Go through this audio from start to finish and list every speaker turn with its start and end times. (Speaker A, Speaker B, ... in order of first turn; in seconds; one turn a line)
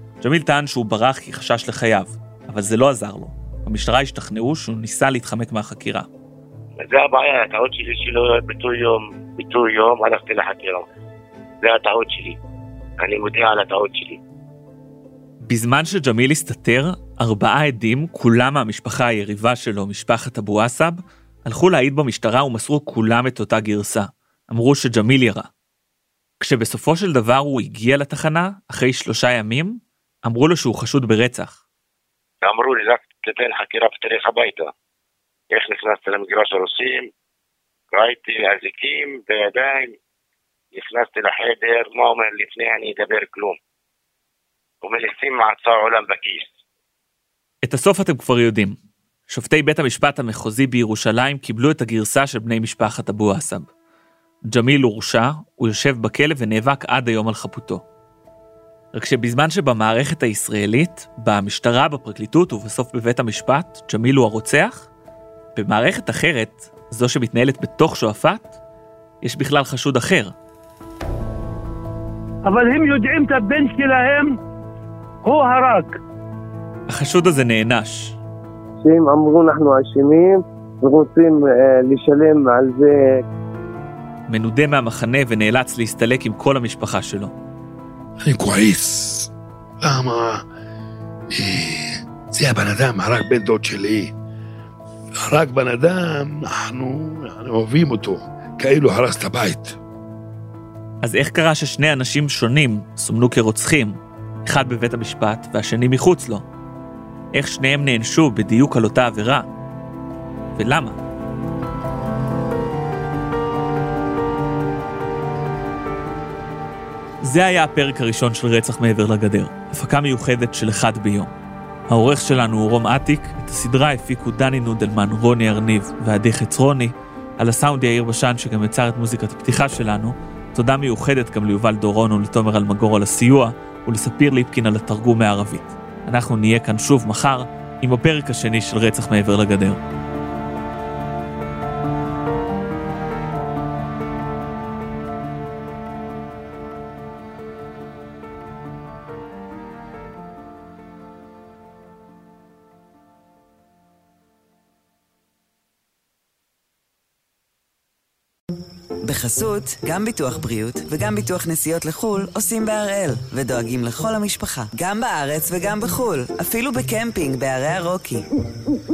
Speaker A: 0.2-6.1
Speaker B: 6.8-10.8
Speaker B: 11.6-12.4
Speaker B: 13.0-14.2
Speaker A: 15.5-25.5
Speaker A: 26.4-31.6
Speaker B: 32.4-34.7
Speaker B: 35.5-37.1
Speaker B: 37.9-39.9
Speaker B: 40.7-43.6
Speaker B: 44.8-46.6
Speaker A: 47.6-48.8
Speaker A: 49.3-53.7
Speaker A: 54.5-57.8
Speaker A: 58.9-64.9
Speaker A: 65.5-68.5
Speaker A: 69.2-70.3
Speaker C: 72.5-74.3
Speaker C: 75.2-75.9
Speaker A: 76.9-78.2
Speaker D: 78.8-83.2
Speaker A: 84.3-87.3
Speaker E: 88.2-89.3
Speaker E: 89.8-90.4
Speaker E: 91.3-94.1
Speaker E: 95.2-99.8
Speaker A: 101.0-106.4
Speaker A: 107.3-109.4
Speaker A: 110.5-111.0
Speaker A: 117.2-121.3
Speaker A: 121.9-139.8
Speaker F: 159.1-168.2